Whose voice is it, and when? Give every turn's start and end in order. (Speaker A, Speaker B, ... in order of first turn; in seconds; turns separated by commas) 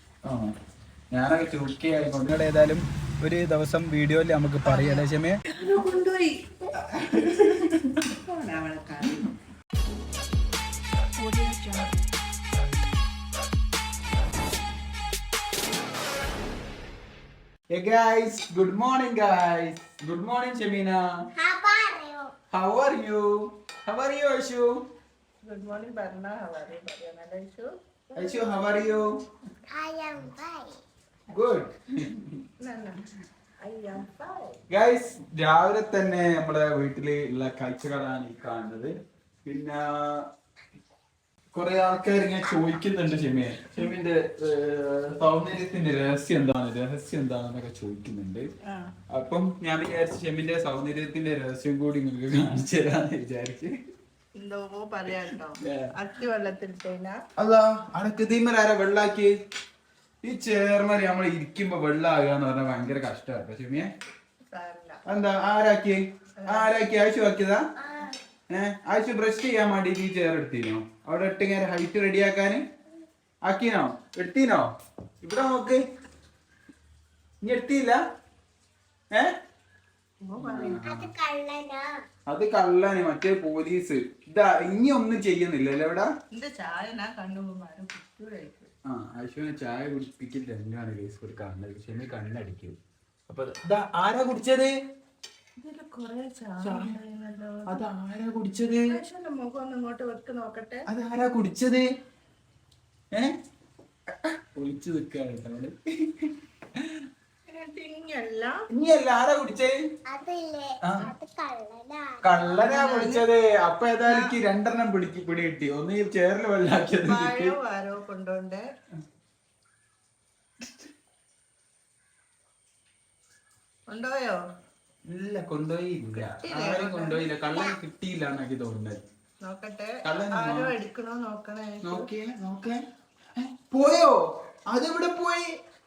Speaker A: 0.2-0.5, Speaker A: 1.1-5.4, Speaker B: 4.7-6.4, Speaker A: 6.8-8.1, Speaker B: 8.2-9.2, Speaker B: 11.2-12.1, Speaker A: 17.7-21.0, Speaker C: 21.4-22.3, Speaker A: 22.5-24.8, Speaker B: 25.4-27.7, Speaker C: 28.1-28.5, Speaker A: 28.1-29.1, Speaker C: 29.7-30.8, Speaker A: 31.3-32.4, Speaker B: 32.6-33.0, Speaker B: 33.6-34.6, Speaker A: 34.7-38.9, Speaker A: 39.5-40.2, Speaker A: 41.5-48.5, Speaker B: 48.7-48.9, Speaker A: 49.1-53.7, Speaker B: 54.4-57.2, Speaker A: 55.6-55.9, Speaker A: 57.4-59.3, Speaker A: 60.2-63.9, Speaker B: 64.5-65.0, Speaker A: 65.0-67.6, Speaker B: 66.4-66.8, Speaker A: 68.5-72.6, Speaker A: 73.4-74.7, Speaker A: 75.2-75.8, Speaker A: 77.4-78.0, Speaker B: 80.2-80.8, Speaker A: 80.4-81.1, Speaker C: 80.8-81.9, Speaker A: 82.3-86.1, Speaker B: 86.3-88.7, Speaker A: 88.8-92.8, Speaker A: 93.3-94.8, Speaker B: 95.6-97.9, Speaker A: 96.6-96.9, Speaker A: 97.7-99.0, Speaker B: 98.9-100.8, Speaker A: 100.9-101.8, Speaker A: 104.1-107.1, Speaker B: 107.5-108.6, Speaker A: 108.7-109.8, Speaker C: 110.1-112.2, Speaker A: 110.8-111.1, Speaker A: 112.2-117.5, Speaker B: 112.6-113.2, Speaker B: 114.0-114.3, Speaker B: 117.0-118.6, Speaker B: 123.9-124.4, Speaker A: 125.1-129.0, Speaker B: 126.1-127.7, Speaker B: 129.4-132.1, Speaker A: 130.0-130.7, Speaker A: 131.8-132.8, Speaker A: 133.3-135.5